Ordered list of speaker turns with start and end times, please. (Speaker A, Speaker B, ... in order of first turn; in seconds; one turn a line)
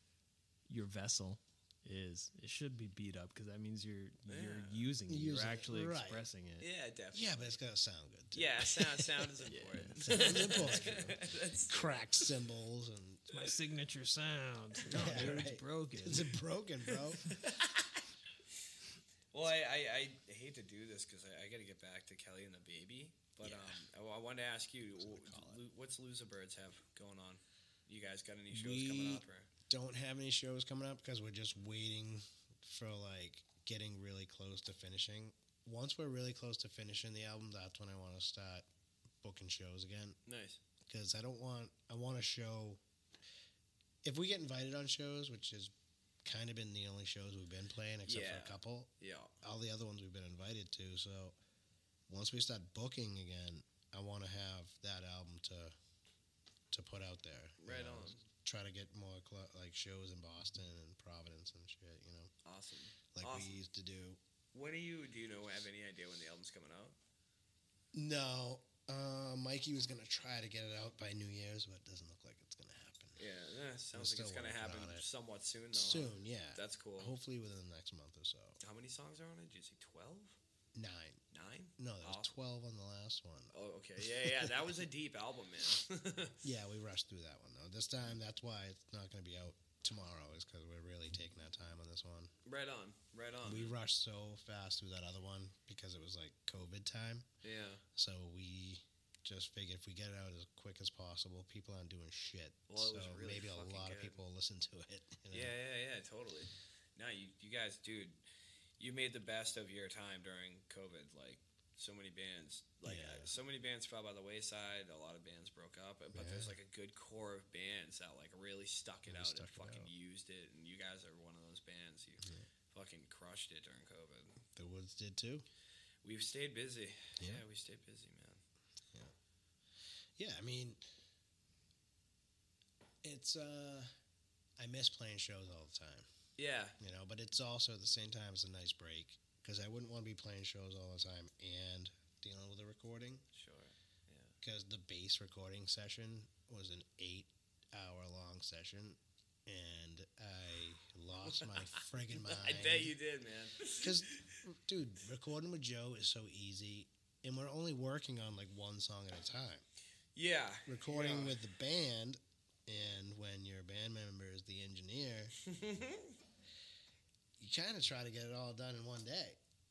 Speaker A: 0.7-6.7
Speaker B: 4.3-4.9
Speaker C: 5.1-6.3
Speaker B: 6.6-7.6
Speaker C: 7.1-9.3
Speaker B: 8.3-12.2
Speaker A: 9.4-10.7
Speaker C: 10.1-13.5
Speaker A: 13.3-16.4
Speaker C: 14.9-17.4
Speaker B: 17.2-18.0
Speaker B: 19.3-29.5
Speaker C: 23.4-23.9
Speaker C: 25.0-25.6
Speaker C: 28.5-38.7
Speaker C: 39.2-40.2
Speaker B: 40.3-40.6
Speaker C: 40.9-42.8
Speaker C: 44.0-45.7
Speaker C: 46.2-51.4
Speaker B: 48.0-49.4
Speaker C: 52.1-55.7
Speaker C: 56.7-62.3
Speaker B: 57.6-58.3
Speaker B: 62.5-63.6
Speaker C: 63.1-64.2
Speaker B: 64.5-67.0
Speaker C: 67.9-73.2
Speaker B: 73.2-77.2
Speaker C: 73.9-75.1
Speaker C: 75.7-78.6
Speaker B: 78.6-80.4
Speaker C: 80.7-81.2
Speaker B: 81.3-82.3
Speaker C: 81.8-84.8
Speaker B: 83.5-86.4
Speaker C: 86.4-92.3
Speaker B: 92.5-93.8
Speaker C: 93.4-97.3
Speaker B: 97.4-97.8
Speaker C: 98.0-105.5
Speaker B: 102.7-104.2
Speaker B: 105.3-108.2
Speaker B: 108.8-124.4
Speaker C: 112.8-113.3
Speaker C: 116.1-116.6
Speaker C: 119.1-119.9
Speaker C: 122.2-122.5
Speaker C: 124.6-125.5
Speaker B: 126.0-128.4
Speaker C: 127.2-127.4
Speaker C: 130.2-130.8
Speaker C: 133.0-133.9
Speaker C: 134.6-136.1
Speaker B: 136.4-136.8
Speaker C: 136.8-143.2
Speaker B: 143.3-144.3
Speaker C: 144.4-152.9
Speaker B: 151.2-154.4
Speaker C: 153.8-159.7
Speaker B: 160.2-161.4
Speaker C: 160.7-165.3
Speaker B: 165.4-166.2
Speaker C: 167.4-169.4